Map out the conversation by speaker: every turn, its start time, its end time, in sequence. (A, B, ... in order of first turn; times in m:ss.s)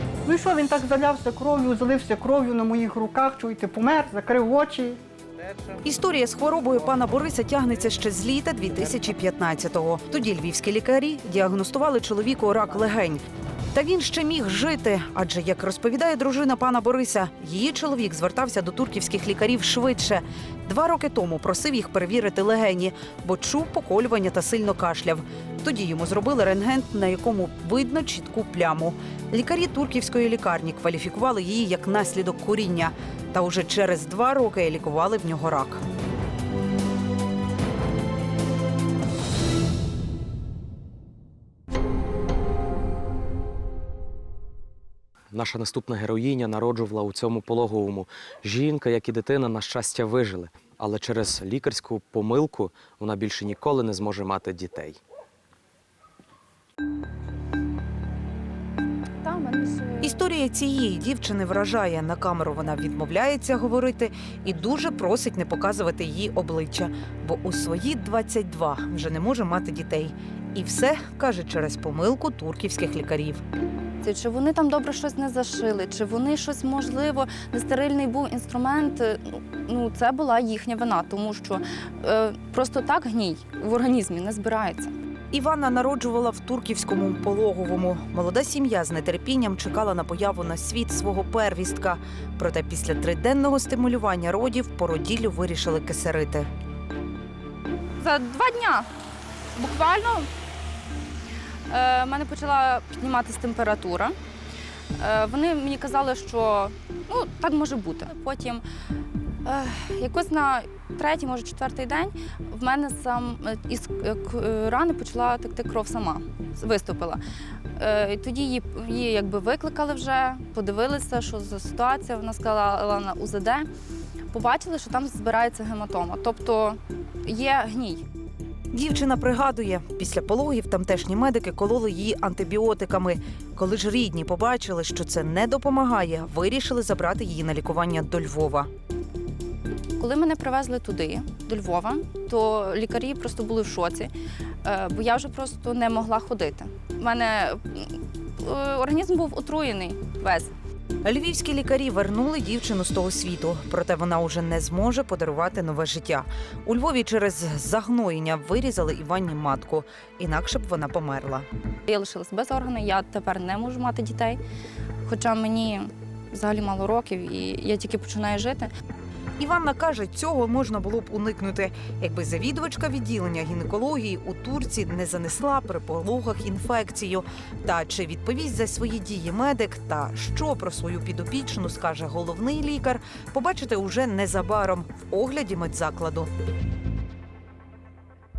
0:00.2-0:05.0 A
0:05.8-0:13.2 B
0:13.7-0:35.8 B
0:45.3-0:55.0 C
0:59.2-1:00.2 D
1:00.0-1:13.4 B
1:14.0-1:24.9 D
1:25.3-1:36.5 B
1:38.0-1:38.9 D
1:39.6-1:40.3 D
1:41.7-1:44.1 D
1:45.0-1:48.6 D
1:49.4-1:57.2 D
1:57.8-2:03.7 D
2:04.3-2:08.0 D
2:08.7-2:18.7 B
2:20.0-2:24.1 D
2:24.6-2:30.5 D
2:31.0-2:41.4 B
2:41.9-2:44.4 D
2:45.1-2:48.7 D
2:49.4-3:06.3 B